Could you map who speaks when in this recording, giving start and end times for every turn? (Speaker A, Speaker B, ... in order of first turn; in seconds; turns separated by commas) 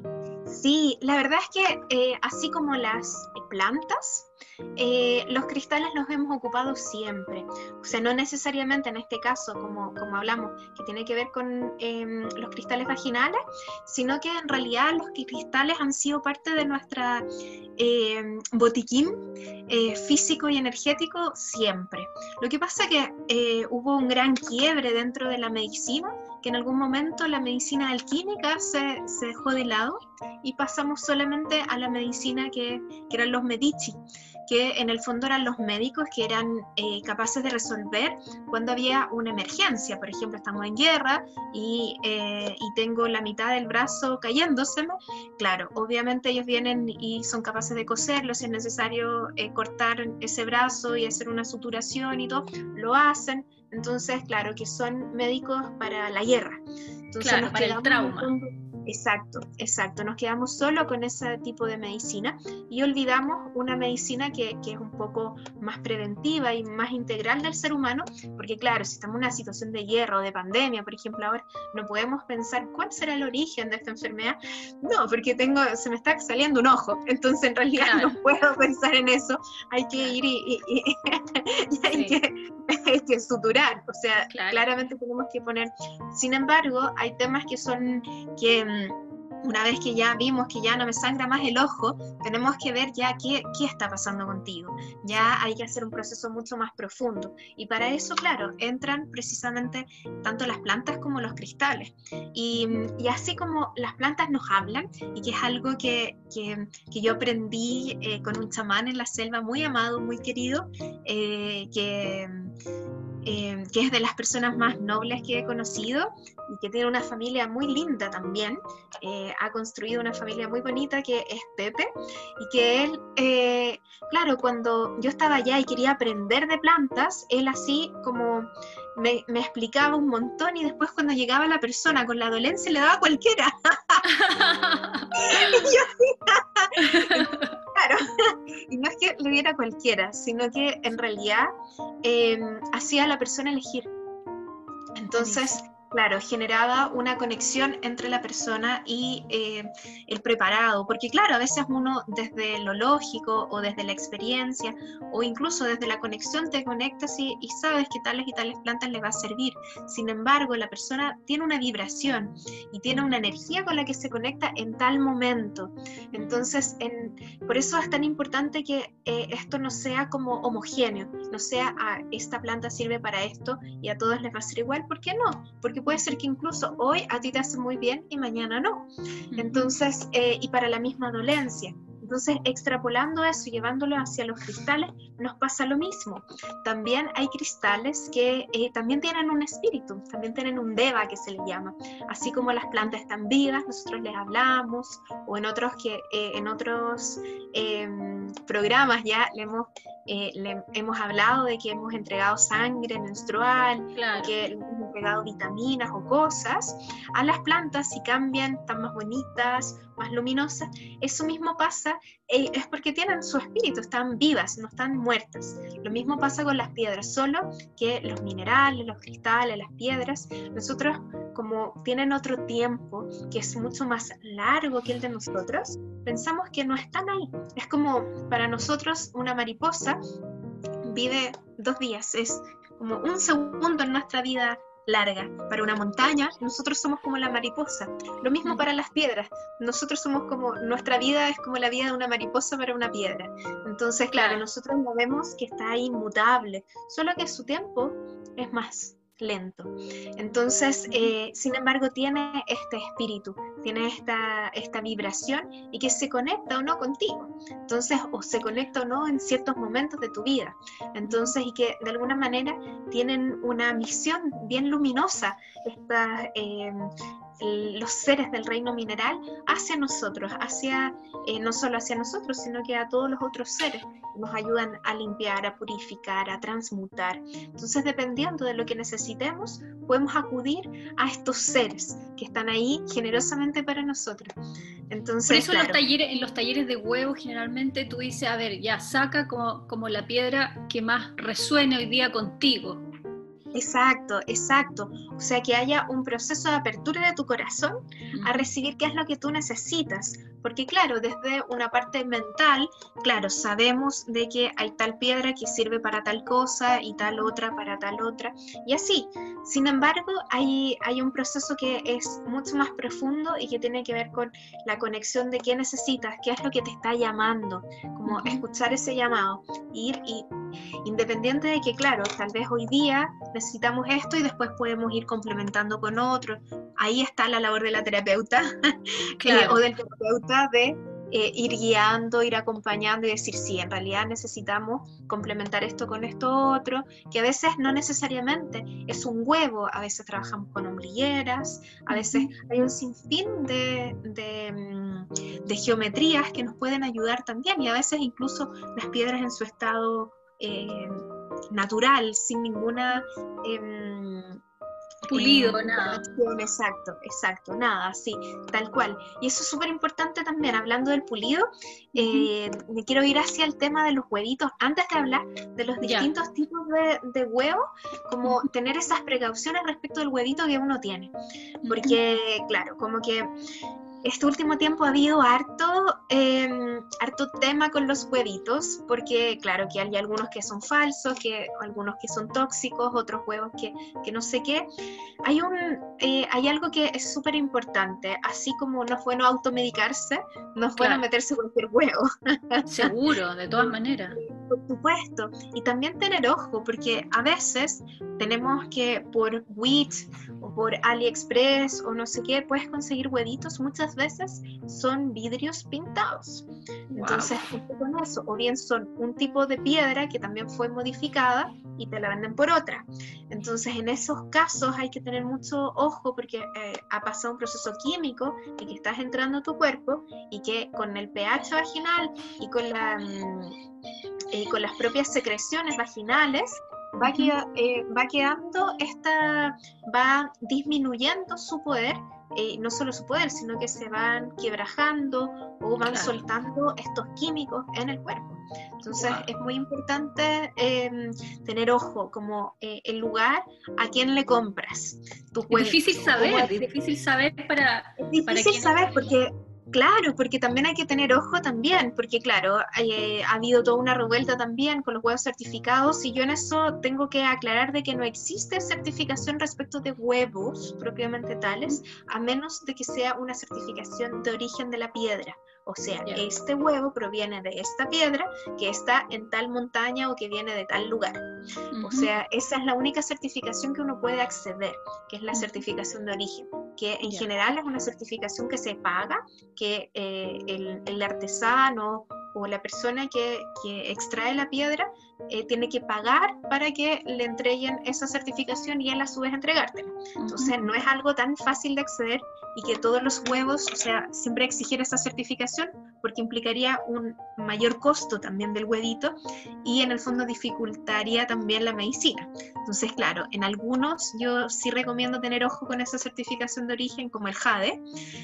Speaker A: 0.5-112.5, Speaker B: 57.2-58.3, Speaker B: 77.8-78.2, Speaker B: 81.9-82.2, Speaker B: 84.3-84.7, Speaker A: 113.2-134.0, Speaker B: 134.0-135.7, Speaker A: 135.2-141.5, Speaker B: 136.8-137.6, Speaker A: 142.0-143.9, Speaker A: 145.0-230.0, Speaker B: 145.2-145.6, Speaker B: 162.9-163.2, Speaker B: 166.1-166.4, Speaker B: 179.3-179.7, Speaker B: 203.9-204.3, Speaker B: 215.9-216.2, Speaker A: 230.8-284.3, Speaker B: 244.1-244.4, Speaker B: 250.9-251.1, Speaker B: 261.0-261.3, Speaker A: 284.9-285.8, Speaker B: 285.3-292.8, Speaker A: 293.5-320.3, Speaker B: 298.1-298.5, Speaker B: 318.1-318.4, Speaker A: 320.8-328.5, Speaker A: 329.2-354.4, Speaker B: 329.2-329.6, Speaker B: 341.9-342.3, Speaker B: 355.1-356.1, Speaker A: 355.1-371.1, Speaker B: 361.9-362.3, Speaker B: 365.8-366.1, Speaker B: 371.6-372.0, Speaker A: 371.7-373.3, Speaker A: 374.0-384.7, Speaker A: 385.2-392.9, Speaker B: 390.8-391.0, Speaker B: 392.7-394.2, Speaker A: 393.6-423.6, Speaker B: 406.9-407.5, Speaker A: 424.3-446.7, Speaker B: 427.0-427.3, Speaker B: 435.9-436.2, Speaker B: 439.0-439.2, Speaker B: 445.5-448.8, Speaker A: 448.0-471.2, Speaker B: 471.7-472.1, Speaker A: 471.8-507.8, Speaker B: 475.3-475.6, Speaker B: 490.2-490.7